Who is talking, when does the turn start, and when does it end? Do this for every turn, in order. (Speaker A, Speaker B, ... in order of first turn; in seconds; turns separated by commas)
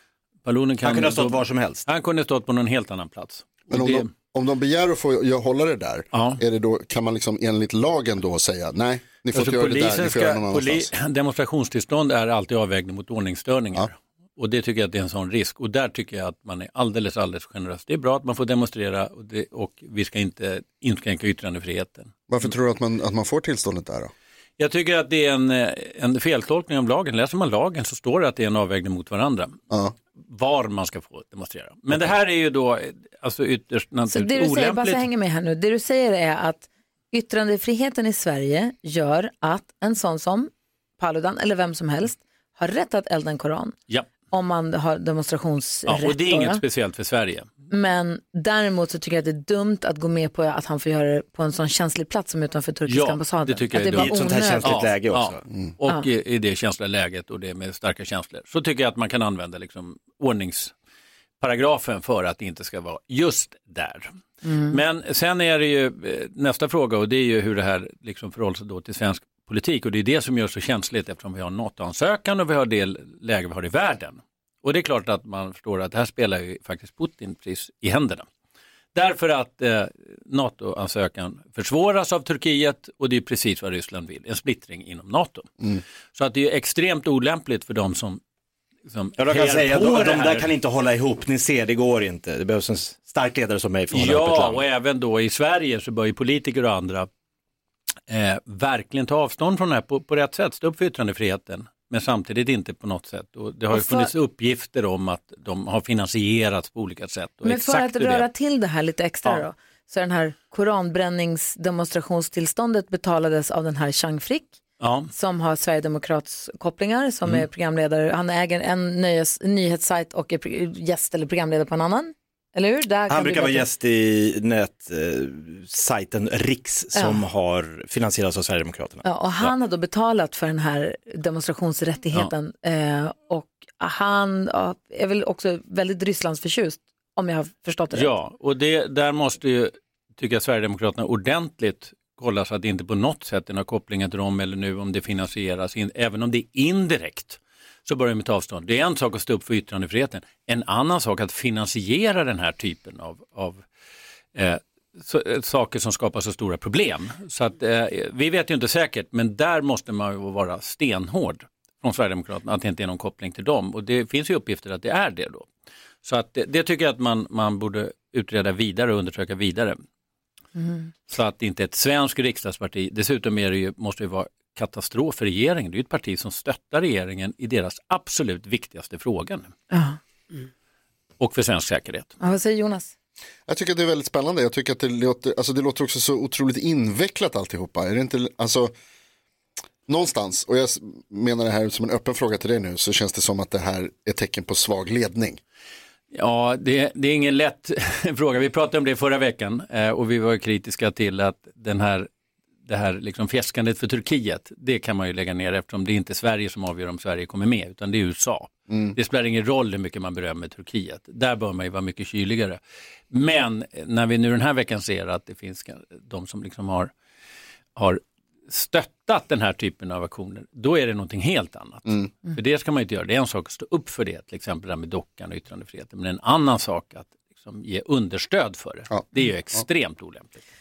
Speaker A: 0.4-4.1, Speaker B: 0.8-1.9, Speaker C: 3.7-10.9, Speaker A: 6.1-6.4, Speaker A: 9.3-22.5, Speaker C: 22.3-24.1, Speaker A: 24.6-29.6, Speaker C: 29.7-29.9, Speaker A: 30.2-35.1, Speaker D: 34.1-43.8, Speaker D: 44.3-46.6, Speaker A: 45.9-47.5, Speaker D: 47.7-54.7, Speaker A: 52.9-60.7, Speaker B: 53.9-55.4, Speaker A: 61.4-64.1, Speaker D: 64.5-64.8, Speaker A: 64.7-78.3, Speaker A: 78.9-85.5, Speaker A: 86.1-88.2, Speaker A: 88.9-90.5, Speaker B: 89.2-94.7, Speaker A: 93.9-97.1, Speaker A: 98.1-108.3, Speaker D: 103.7-104.1, Speaker D: 107.5-114.6, Speaker A: 114.8-115.1, Speaker D: 115.1-123.7, Speaker B: 123.1-129.1, Speaker D: 127.0-127.2, Speaker D: 129.0-138.1, Speaker A: 137.9-153.7, Speaker A: 154.3-165.5, Speaker A: 166.0-169.8, Speaker D: 170.6-170.8, Speaker A: 171.1-179.5, Speaker D: 179.7-180.0, Speaker A: 181.2-182.1, Speaker D: 182.2-182.9, Speaker C: 183.5-188.7, Speaker C: 189.9-195.4, Speaker A: 196.1-202.1, Speaker A: 202.7-212.6, Speaker C: 208.7-209.0, Speaker A: 213.1-216.9, Speaker A: 217.8-230.4, Speaker C: 228.9-229.7